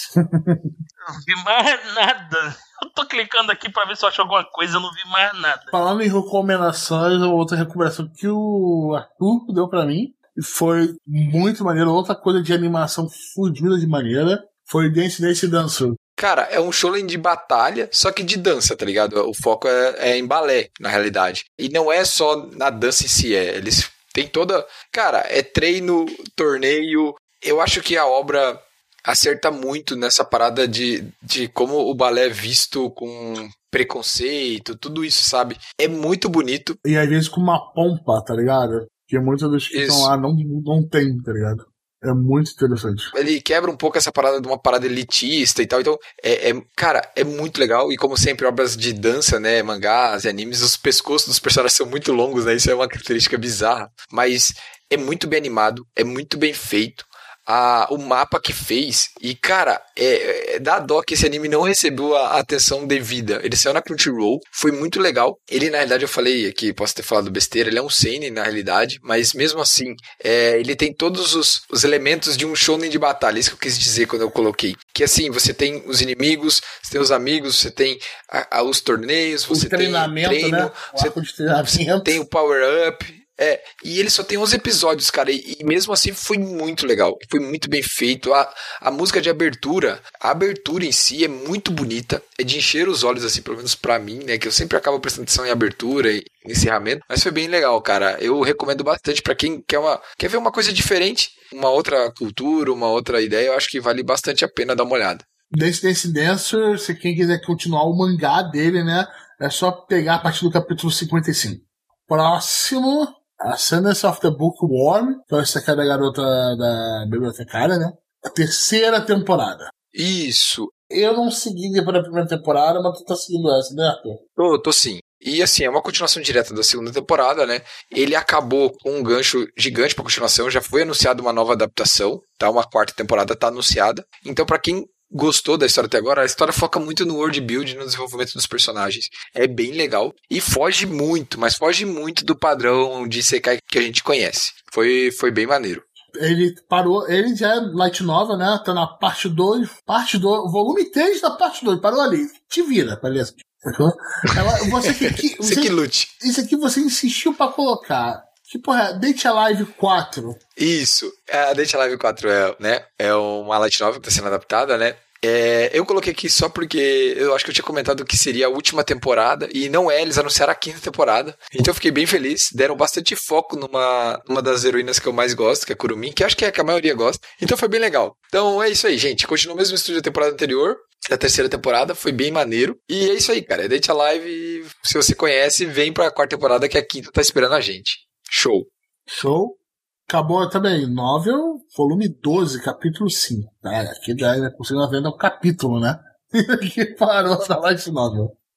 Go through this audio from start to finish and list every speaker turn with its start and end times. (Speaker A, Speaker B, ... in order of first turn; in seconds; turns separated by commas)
Speaker A: 0.1-0.7, Speaker B: 1.1-5.7, Speaker A: 5.7-16.0, Speaker C: 16.2-36.8, Speaker A: 36.8-43.1, Speaker C: 39.7-40.1, Speaker C: 43.1-81.1, Speaker A: 79.5-82.2, Speaker C: 81.9-105.2, Speaker A: 105.5-119.7, Speaker C: 119.9-120.7, Speaker A: 120.9-124.2, Speaker C: 124.4-145.8, Speaker A: 146.2-160.4, Speaker C: 154.4-156.1, Speaker C: 160.6-188.7, Speaker A: 189.1-198.3